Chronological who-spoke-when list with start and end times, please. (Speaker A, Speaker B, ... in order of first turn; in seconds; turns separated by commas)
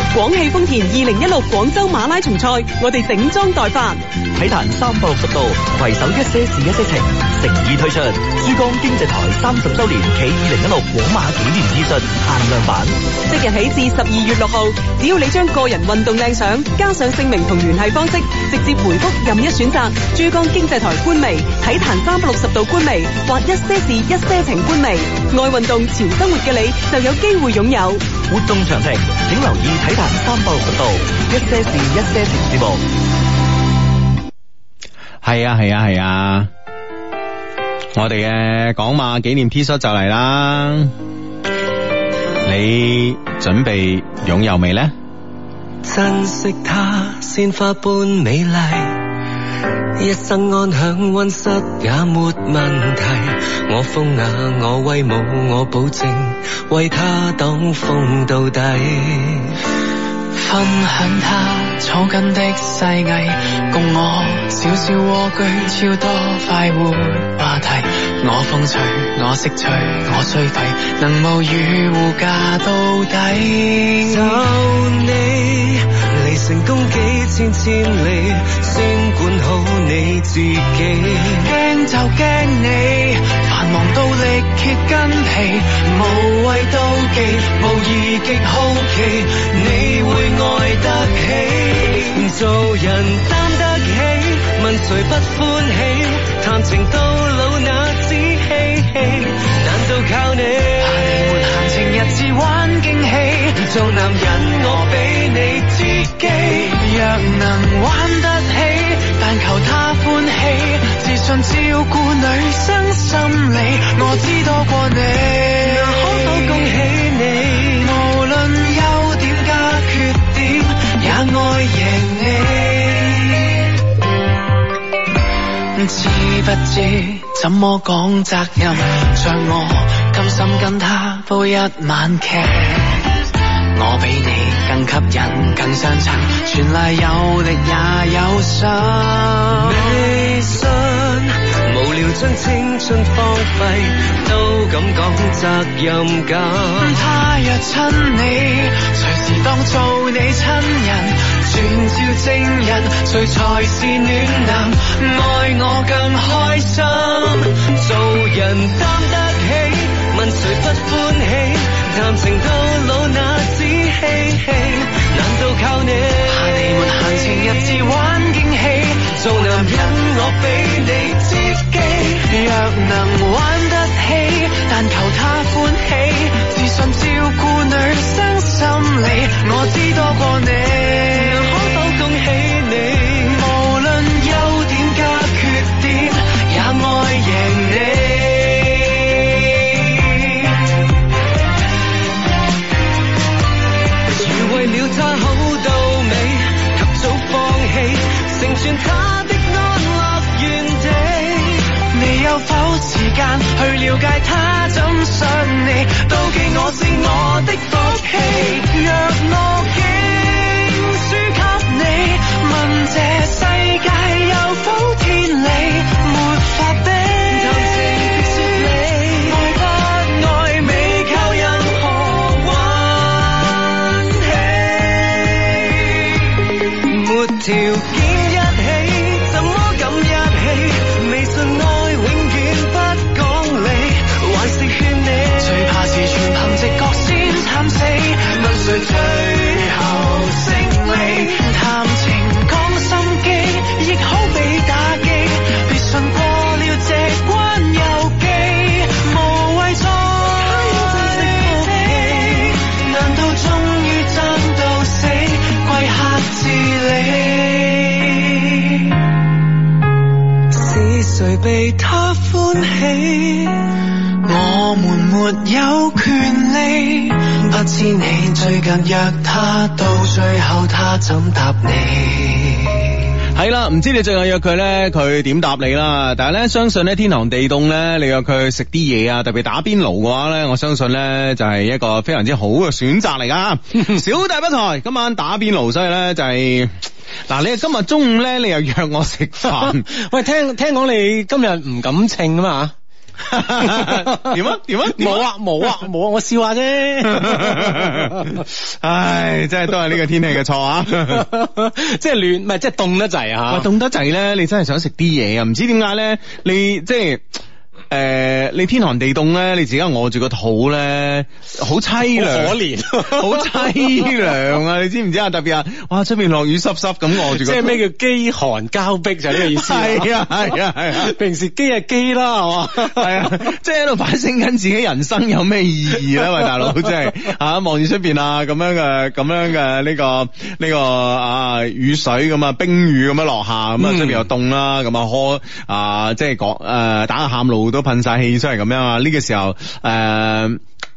Speaker A: 0.1-4.0, Speaker B: 4.3-12.9, Speaker A: 13.3-28.0, Speaker B: 28.3-32.8, Speaker C: 35.2-36.5, Speaker C: 37.9-40.9, Speaker C: 42.4-44.9, Speaker D: 45.8-49.0, Speaker D: 50.0-59.6, Speaker E: 60.3-74.4, Speaker D: 74.0-81.5, Speaker E: 81.4-92.2, Speaker D: 89.5-101.3, Speaker E: 100.8-116.7, Speaker D: 103.5-106.4, Speaker D: 115.6-117.9, Speaker E: 117.8-123.6, Speaker E: 125.7-133.1, Speaker E: 133.7-140.0, Speaker D: 139.5-147.0, Speaker E: 146.8-157.5, Speaker D: 157.6-167.8, Speaker E: 166.3-181.5, Speaker D: 169.1-171.2, Speaker D: 181.1-183.5, Speaker E: 183.3-190.5, Speaker D: 194.1-201.7, Speaker E: 201.9-222.8, Speaker D: 217.3-219.6, Speaker D: 222.3-226.1, Speaker D: 226.7-235.6, Speaker E: 235.4-259.0, Speaker D: 240.9-241.4, Speaker D: 250.4-252.8, Speaker D: 260.5-263.7, Speaker E: 264.2-272.8, Speaker C: 273.3-289.8, Speaker F: 289.6-292.7, Speaker C: 293.2-295.8, Speaker F: 293.6-298.4, Speaker C: 297.1-301.2, Speaker F: 300.9-303.7, Speaker C: 303.5-307.4, Speaker C: 307.9-317.8, Speaker F: 312.1-314.4, Speaker F: 317.1-320.1, Speaker C: 319.3-321.1, Speaker F: 320.9-323.5, Speaker C: 322.7-340.6, Speaker F: 326.2-326.9, Speaker F: 333.8-334.3